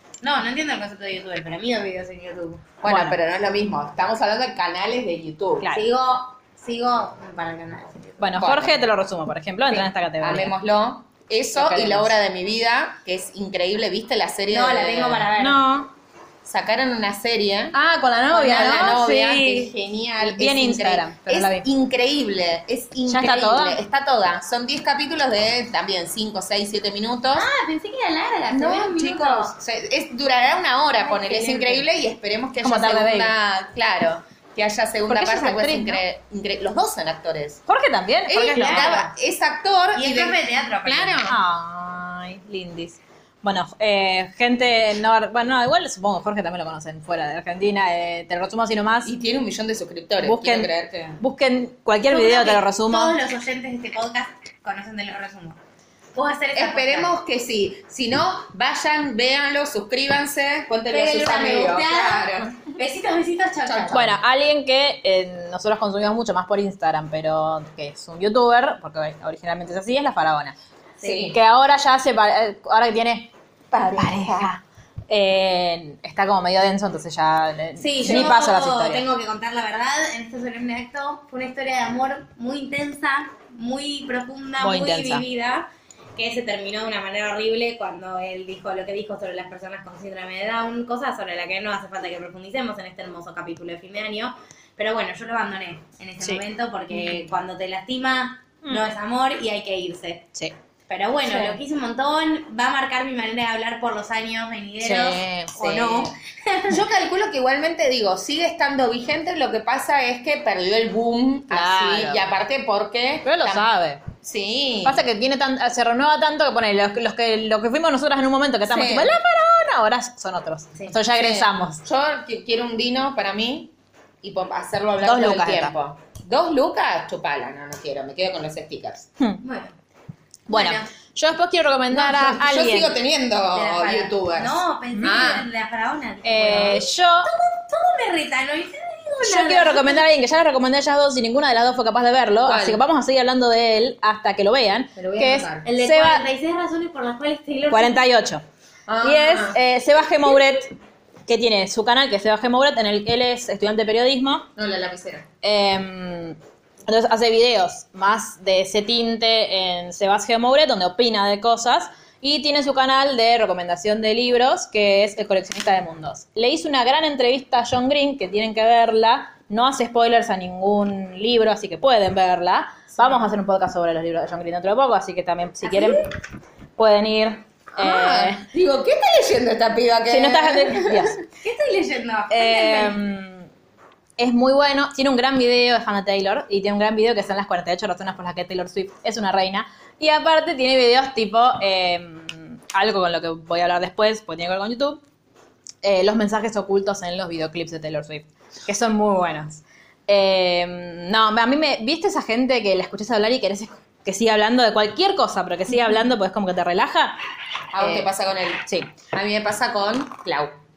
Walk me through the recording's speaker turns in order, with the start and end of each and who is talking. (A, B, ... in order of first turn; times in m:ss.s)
0:00.2-0:02.6 A
0:02.8-0:05.7 B
0:02.8-0:03.2 C
0:05.7-0:08.4 A
0:08.2-0:10.5 C
0:08.4-0:08.8 B
0:10.2-0:15.3 B
0:11.5-0:12.1 C
0:14.5-0:15.6 A
0:15.4-0:15.9 C
0:16.4-0:17.8 B
0:17.7-0:21.6 C
0:18.3-0:27.5 B
0:23.1-0:23.8 C
0:27.3-0:29.5 A
0:28.5-0:37.6 B
0:31.0-0:31.8 A
0:32.6-0:33.3 C
0:35.1-0:36.0 C
0:37.7-0:39.0 C
0:38.3-0:41.4 B
0:38.5-0:39.1 A
0:39.9-0:41.2 A
0:41.3-0:49.1 C
0:49.0-0:51.2 B
0:50.2-0:53.2 C
0:52.0-0:55.6 A
0:56.1-0:57.1 A
0:56.5-1:02.7 B
1:00.9-1:04.1 A
1:03.6-1:04.2 B
1:03.9-1:10.6 C
1:11.0-1:11.3 A
1:11.0-1:11.4 B
1:11.3-1:13.3 C
1:13.7-1:14.5 B
1:13.9-1:19.0 C
1:17.8-1:40.2 A
1:18.0-1:18.3 B
1:24.6-1:25.2 C
1:36.2-1:37.2 C
1:38.6-1:38.9 C
1:40.9-1:46.8 A
1:41.2-1:41.6 C
1:44.8-1:45.5 C
1:45.5-1:46.1 B
1:46.7-1:53.7 B
1:51.5-1:52.3 C
1:53.2-1:54.0 C
1:54.2-1:55.0 B
1:54.8-2:01.8 C
1:58.7-1:59.2 B
2:01.1-2:09.1 B
2:05.0-2:05.7 C
2:09.4-2:09.7 A
2:10.5-2:13.0 C
2:10.5-2:10.9 A
2:11.9-2:15.4 B
2:13.5-2:20.0 A
2:16.2-2:17.3 C
2:19.2-2:26.2 C
2:22.4-2:22.8 B
2:25.0-2:25.6 B
2:25.6-2:28.0 A
2:27.7-2:28.4 C
2:28.9-2:29.6 B
2:29.0-2:30.7 C
2:31.3-2:34.5 C
2:34.6-2:35.3 B
2:35.4-2:56.1 C
2:55.6-2:56.0 A
2:56.8-2:58.4 C
2:57.7-3:01.2 B
3:00.1-3:01.2 C
3:01.3-3:03.0 A
3:02.3-3:03.5 C
3:04.2-3:15.0 C
3:15.8-3:27.2 C
3:27.7-3:30.6 B
3:27.8-3:28.1 C